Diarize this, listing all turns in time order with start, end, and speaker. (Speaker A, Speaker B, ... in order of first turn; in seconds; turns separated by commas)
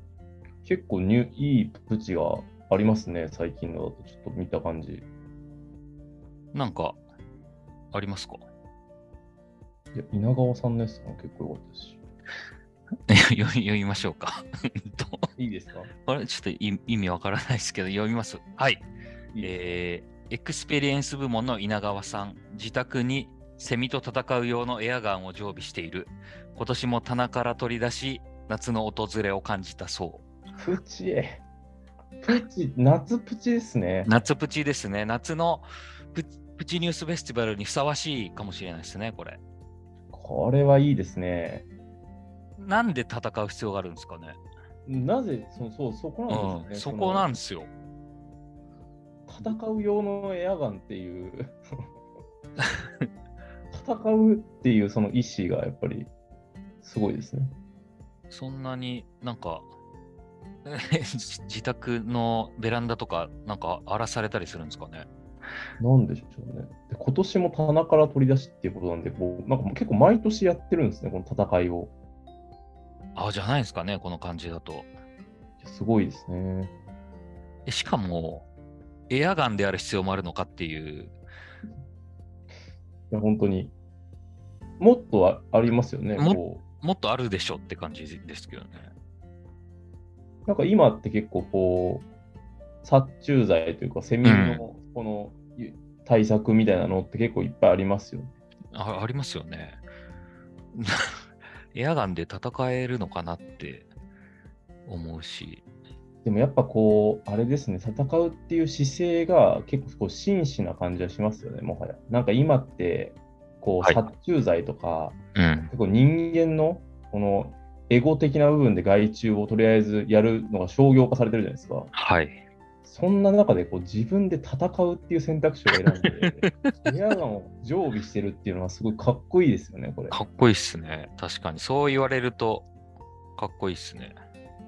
Speaker A: 0.6-5.0, Speaker B: 6.5-7.0, Speaker B: 7.9-8.4, Speaker A: 9.9-12.0, Speaker B: 13.1-15.3, Speaker A: 15.3-15.9, Speaker B: 16.1-18.9, Speaker B: 19.4-30.2, Speaker A: 30.6-31.4, Speaker A: 32.2-34.1, Speaker B: 34.0-39.4, Speaker A: 40.1-41.6, Speaker B: 42.6-44.4, Speaker A: 44.9-47.3, Speaker B: 46.3-47.7, Speaker A: 49.3-51.5, Speaker A: 53.7-56.1, Speaker A: 56.8-57.5, Speaker B: 58.3-59.7, Speaker B: 60.6-65.1, Speaker A: 65.8-71.9, Speaker B: 73.1-74.9, Speaker A: 75.6-76.7, Speaker B: 77.7-78.5, Speaker B: 79.1-81.2, Speaker A: 83.1-83.7, Speaker A: 84.8-86.6, Speaker B: 86.2-88.9, Speaker A: 90.5-92.1, Speaker A: 92.8-98.3, Speaker B: 94.2-94.6, Speaker B: 98.7-99.8, Speaker B: 100.7-101.1, Speaker B: 101.7-103.9, Speaker B: 104.8-105.6, Speaker A: 106.2-115.2, Speaker B: 115.3-115.7, Speaker A: 115.7-121.9, Speaker B: 121.9-122.4, Speaker A: 122.8-130.2, Speaker B: 126.0-126.7, Speaker B: 130.1-132.7, Speaker B: 133.4-134.2